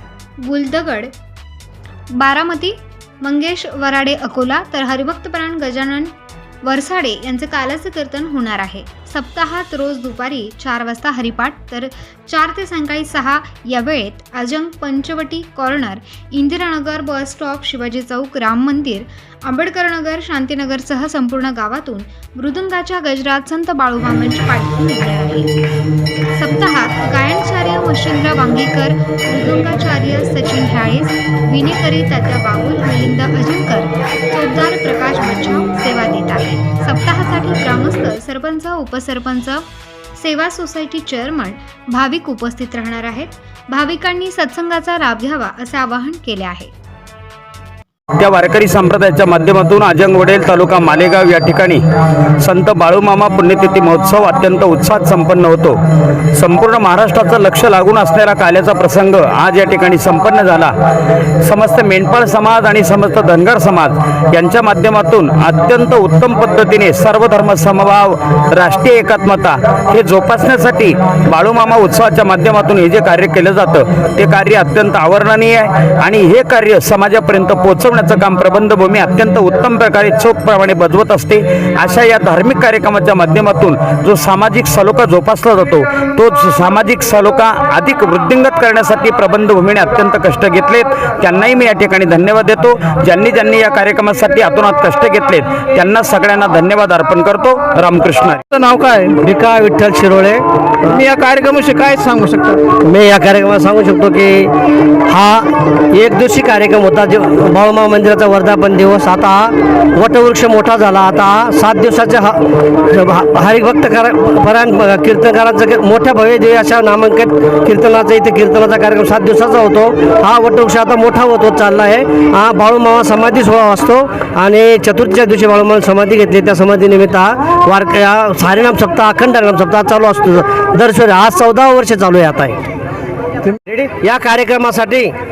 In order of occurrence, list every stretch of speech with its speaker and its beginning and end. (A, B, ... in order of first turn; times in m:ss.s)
0:00.4-0:01.1 A
0:02.2-0:06.1 A
0:06.6-0:25.6 A
0:26.4-0:46.7 A
0:48.2-0:51.8 B
0:52.4-0:55.8 B
0:56.4-1:00.8 B
1:01.4-1:38.4 B
1:38.5-1:39.2 C
1:39.2-1:41.0 D
1:40.9-1:42.6 C
1:42.7-1:44.5 D
1:45.0-2:12.6 D
2:13.7-2:15.1 D